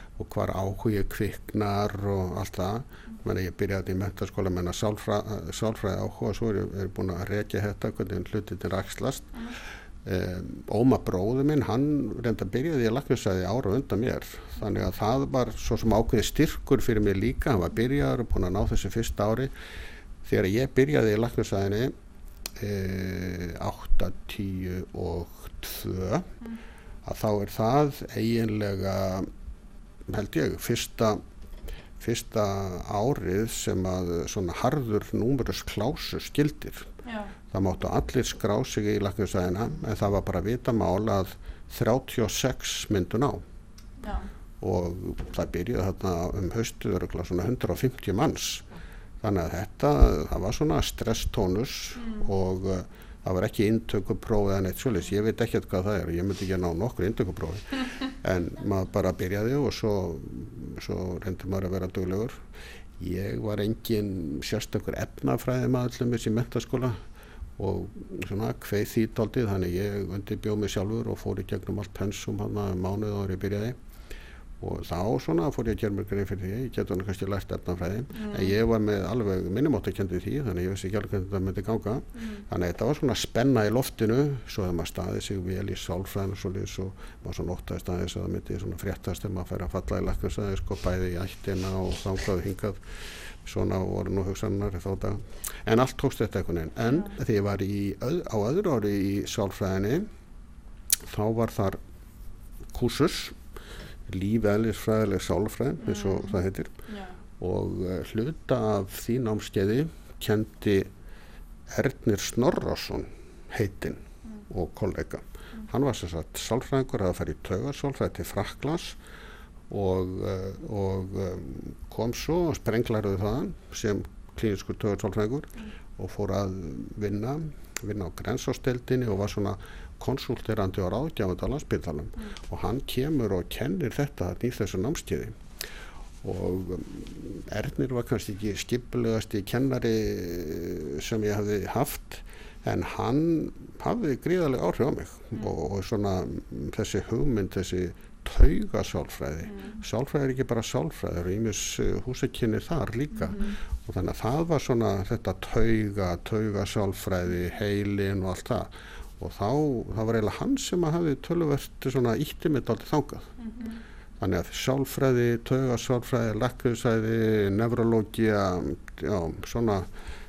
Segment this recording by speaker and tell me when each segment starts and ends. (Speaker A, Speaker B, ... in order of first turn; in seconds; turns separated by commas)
Speaker A: 0.2-9.3, Speaker A: 10.1-19.5, Speaker A: 20.2-21.9, Speaker A: 22.6-26.3, Speaker A: 27.0-29.3, Speaker A: 30.1-31.2, Speaker A: 32.0-36.9, Speaker B: 37.0-37.3, Speaker A: 37.5-43.4, Speaker B: 44.0-44.3, Speaker A: 44.6-48.7, Speaker A: 49.2-62.4, Speaker B: 52.0-52.3, Speaker A: 63.0-67.0, Speaker A: 67.6-73.8, Speaker A: 74.6-100.1, Speaker B: 78.1-78.5, Speaker B: 82.2-82.4, Speaker A: 101.1-101.8, Speaker A: 102.7-103.4, Speaker A: 104.1-106.8, Speaker B: 105.8-106.3, Speaker B: 106.9-107.2, Speaker A: 107.4-110.9, Speaker A: 111.7-119.0, Speaker A: 119.7-135.4, Speaker A: 136.2-163.3, Speaker B: 153.2-153.6, Speaker B: 163.4-163.8, Speaker A: 164.2-169.9